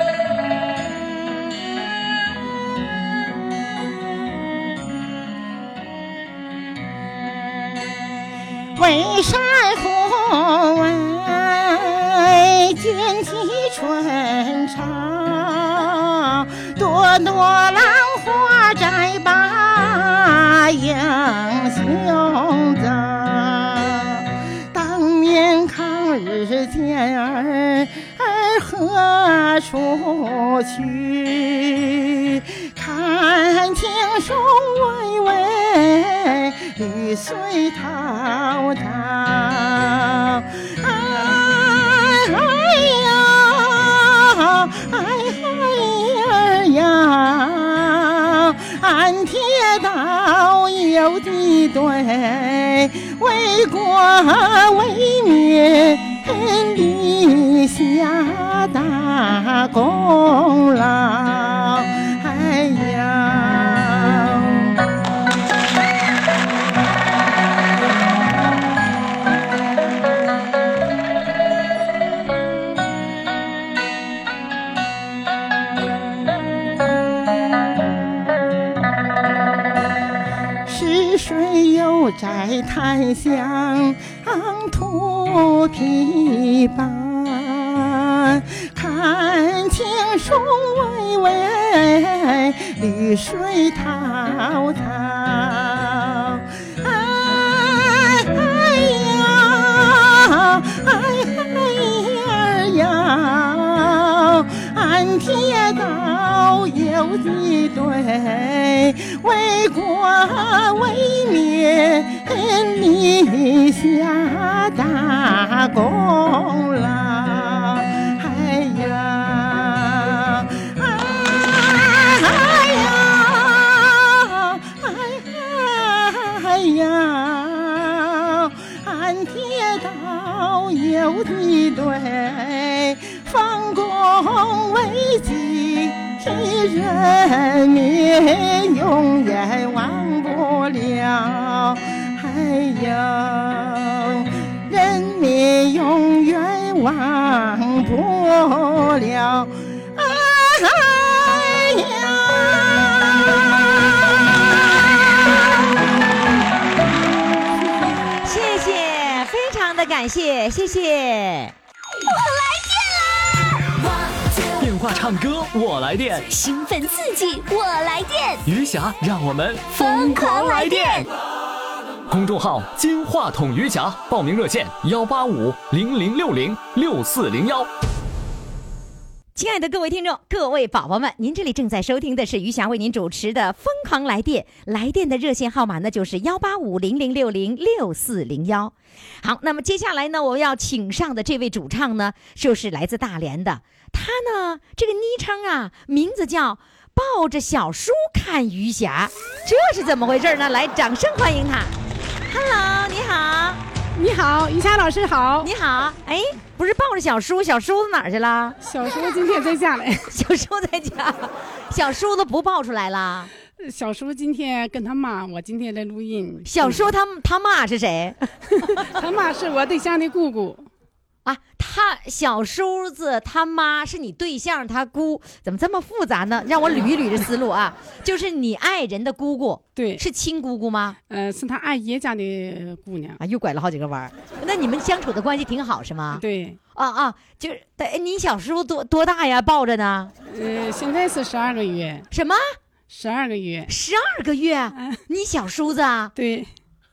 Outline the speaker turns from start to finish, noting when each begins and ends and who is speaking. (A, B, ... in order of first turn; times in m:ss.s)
0:08.8-1:04.7 A
1:20.6-2:35.4 A
2:38.2-2:41.5 B
2:42.0-2:44.5 C
2:44.6-2:46.3 D
2:46.3-2:48.4 C
2:48.4-2:51.1 D
2:49.7-2:51.1 C
2:52.1-2:57.7 D
2:59.3-3:21.7 B
3:22.3-3:23.6 B
3:23.9-3:25.5 E
3:25.4-3:28.6 B
3:28.6-3:30.1 E
3:30.1-3:33.3 B
3:33.6-3:36.9 E
3:36.4-3:38.8 B
3:38.6-3:40.7 E
3:41.2-3:51.0 B
3:49.8-3:50.0 E
3:51.1-3:53.2 E
3:53.2-3:56.2 B
3:56.1-3:56.6 E
3:56.7-4:00.1 B
4:00.3-4:02.0 E
4:02.1-4:02.4 B
4:02.9-4:03.7 E
4:03.7-4:06.1 B
4:06.2-4:06.5 E